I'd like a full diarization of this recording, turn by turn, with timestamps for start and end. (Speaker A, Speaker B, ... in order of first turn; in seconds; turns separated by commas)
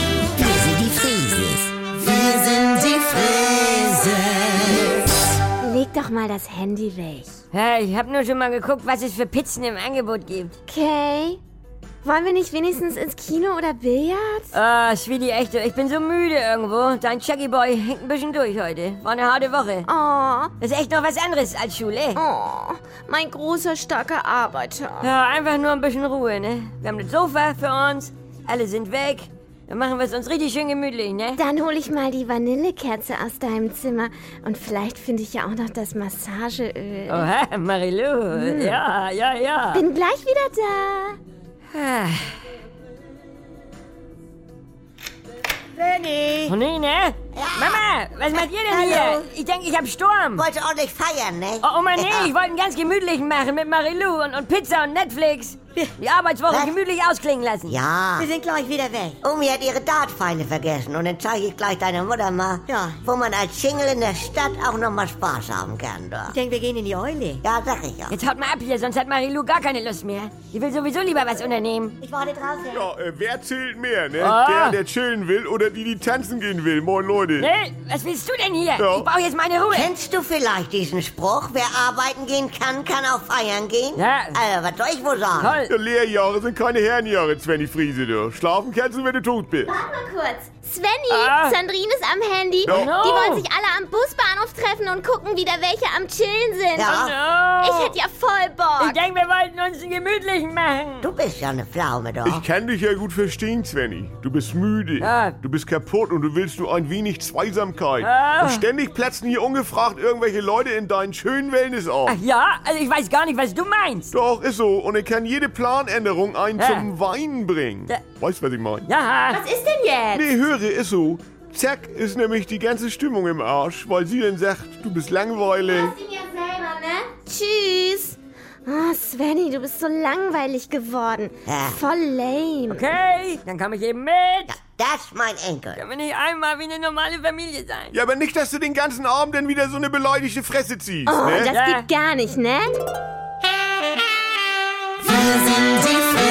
Speaker A: 0.4-4.6, Speaker B: 5.6-7.4, Speaker C: 7.5-10.6, Speaker B: 10.7-11.4, Speaker B: 12.0-14.5, Speaker C: 14.5-19.9, Speaker B: 19.9-20.5, Speaker C: 20.6-22.2, Speaker B: 22.1-25.1, Speaker C: 25.0-31.4, Speaker B: 31.3-37.3, Speaker C: 37.1-39.8, Speaker B: 38.3-38.8, Speaker B: 39.7-41.2, Speaker C: 41.7-42.3, Speaker C: 46.5-50.5, Speaker A: 47.3-47.8, Speaker A: 50.3-52.3, Speaker C: 51.6-57.8, Speaker A: 56.5-56.8, Speaker A: 57.6-58.3, Speaker D: 58.2-59.1, Speaker A: 59.2-66.4, Speaker D: 66.3-67.4, Speaker A: 67.4-68.2, Speaker C: 68.1-72.0, Speaker A: 72.0-72.4, Speaker D: 72.4-72.7, Speaker E: 72.7-77.5, Speaker C: 74.2-74.8, Speaker C: 77.4-79.9, Speaker E: 78.8-79.1, Speaker A: 79.7-85.6, Speaker C: 84.0-84.4, Speaker C: 85.3-85.7, Speaker E: 85.7-89.7, Speaker B: 89.7-96.9, Speaker C: 91.1-91.6, Speaker E: 92.6-93.1, Speaker C: 92.7-93.5, Speaker A: 96.8-97.2, Speaker C: 96.8-98.0, Speaker B: 97.6-99.0, Speaker C: 98.8-101.1, Speaker A: 101.0-102.4, Speaker E: 102.2-112.2, Speaker C: 105.0-105.3, Speaker C: 108.0-108.6, Speaker C: 112.1-114.1, Speaker E: 114.1-118.8, Speaker C: 116.6-116.9, Speaker C: 118.8-119.4, Speaker B: 119.3-120.3, Speaker E: 120.1-126.0, Speaker B: 125.7-132.9, Speaker A: 131.5-131.8, Speaker C: 132.7-134.6, Speaker A: 134.5-135.8, Speaker C: 135.7-137.9, Speaker E: 137.9-141.5, Speaker B: 141.1-142.8, Speaker C: 141.5-141.9